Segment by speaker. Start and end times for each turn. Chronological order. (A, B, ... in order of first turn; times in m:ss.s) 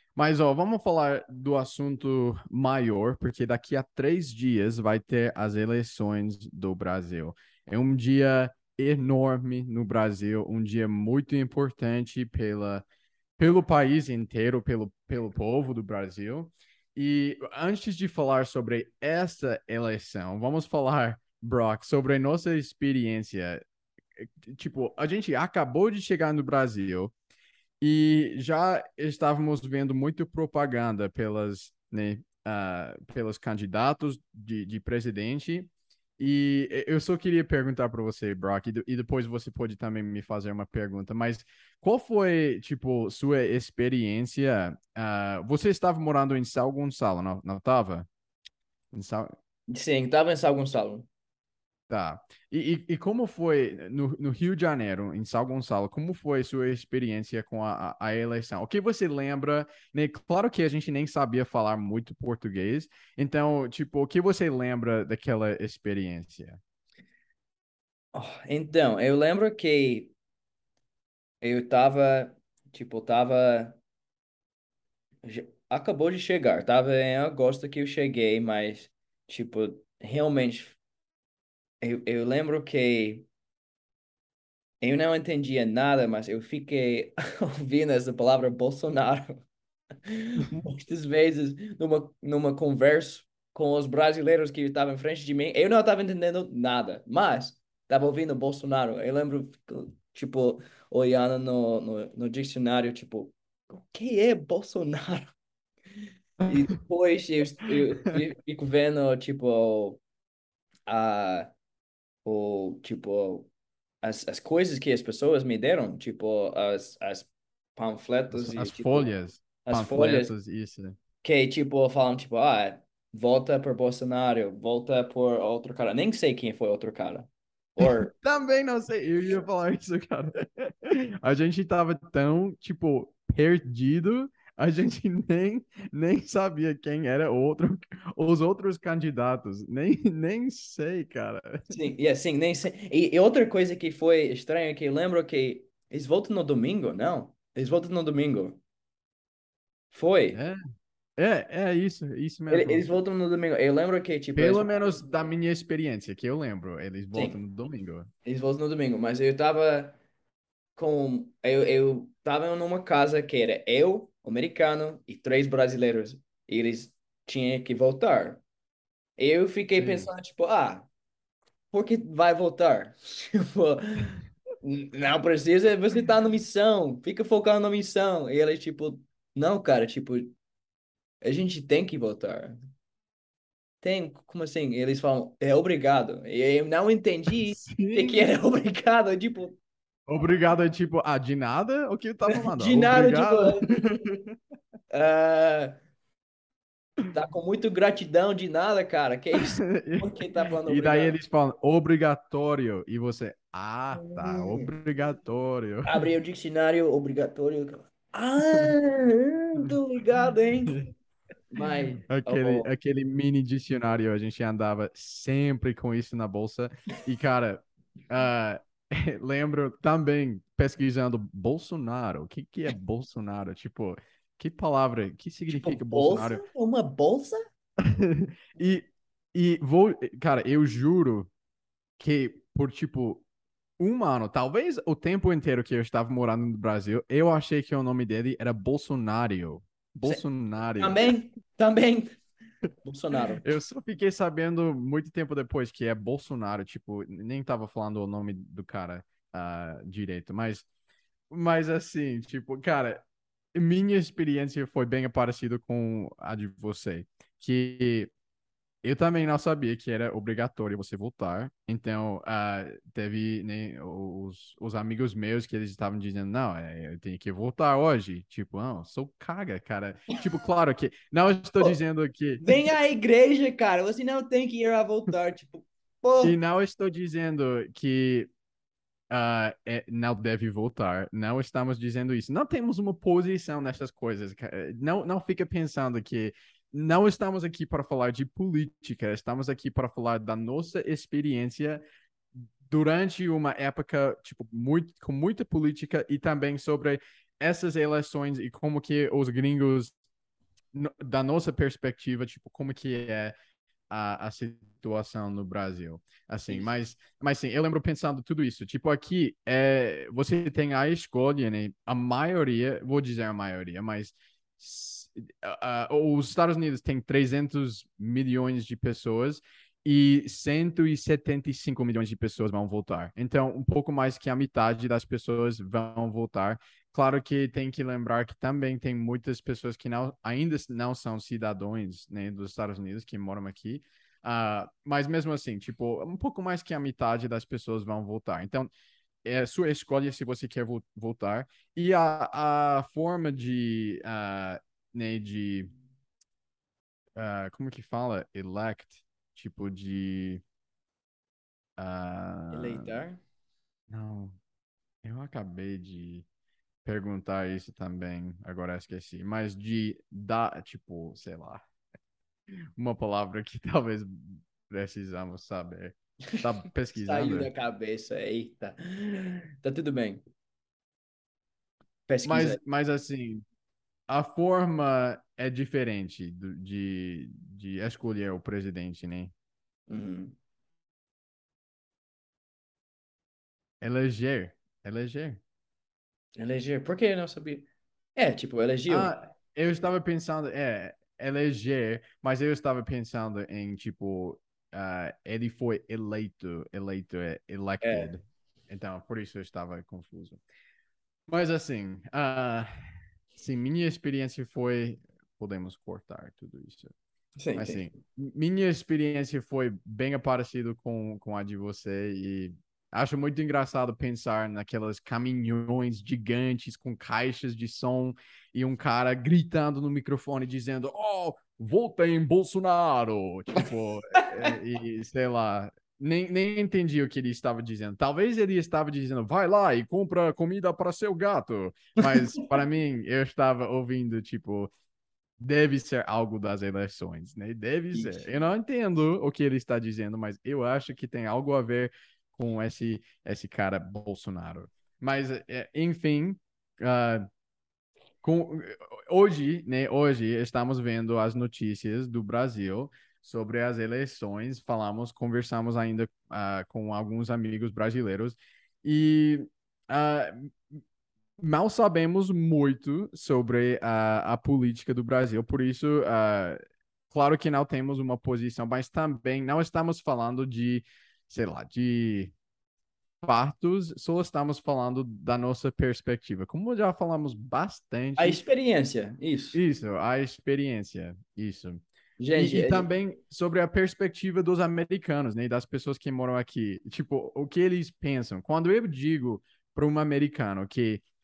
0:00.2-0:12.8 A
0:13.4-0:23.6 A
0:24.2-0:27.1 A
0:27.8-0:48.1 A
0:48.9-0:49.3 A
0:49.7-0:51.1 B
0:51.9-1:06.6 A
1:08.1-1:10.1 B
1:11.4-1:13.8 B
1:15.2-1:20.8 B
1:21.8-1:23.3 B
1:24.8-1:29.4 B
1:30.1-1:45.3 B
1:46.4-1:50.0 B
1:50.9-1:51.5 B
1:52.2-1:53.5 B
1:54.0-1:59.1 B
1:58.3-2:01.0 A
1:59.6-2:00.3 B
2:01.2-2:08.1 B
2:07.8-2:21.7 A
2:21.7-2:28.6 B
2:29.9-2:30.4 B
2:30.3-2:30.6 A
2:31.2-2:32.8 A
2:32.5-2:35.0 B
2:34.4-2:38.1 A
2:38.2-2:40.0 B
2:40.8-2:48.4 B
2:49.2-2:50.9 B
2:49.8-2:50.1 A
2:51.7-3:00.3 B
3:01.2-3:02.6 B
3:03.8-3:09.6 B
3:07.4-3:08.2 A
3:10.1-3:13.5 A
3:12.3-3:14.0 B
3:14.9-3:15.8 B
3:17.1-3:21.2 B
3:19.4-3:26.0 A
3:24.0-3:24.7 B
3:25.9-3:30.8 B
3:31.5-3:32.7 B
3:32.1-3:46.4 A
3:45.5-3:47.4 B
3:47.8-3:51.3 A
3:52.0-3:53.2 A
3:53.8-4:01.0 A
4:00.8-4:02.2 B
4:02.8-4:03.4 B
4:03.4-4:10.7 A
4:11.3-4:18.1 A
4:18.8-4:32.7 A
4:32.4-4:36.4 B
4:36.2-4:38.3 A
4:39.1-4:51.8 A
4:52.4-4:59.9 A
5:00.7-5:03.4 A
5:03.9-5:38.7 A
5:39.2-5:45.7 A
5:47.2-5:50.4 A
5:51.8-5:52.9 A
5:52.5-5:53.2 B
5:53.9-5:54.4 A
5:55.0-5:56.3 A
5:56.8-6:01.6 A
6:02.8-6:07.5 A
6:06.3-6:10.2 B
6:12.1-6:12.6 B
6:12.2-6:13.4 A
6:14.1-6:19.3 A
6:19.9-6:20.4 B
6:23.8-6:25.4 A
6:26.4-6:29.1 B
6:28.9-6:40.4 A
6:37.8-6:38.1 B
6:41.3-6:42.7 A
6:43.4-6:46.9 A
6:47.4-6:47.9 B
6:47.6-7:14.7 A
7:04.2-7:04.5 B
7:15.4-7:27.3 A
7:17.9-7:18.2 B
7:28.2-7:40.8 A
7:41.4-7:46.6 A
7:47.1-7:52.3 A
7:53.2-7:58.4 A
7:58.2-7:59.6 B
7:59.5-8:11.0 A
8:02.2-8:02.9 B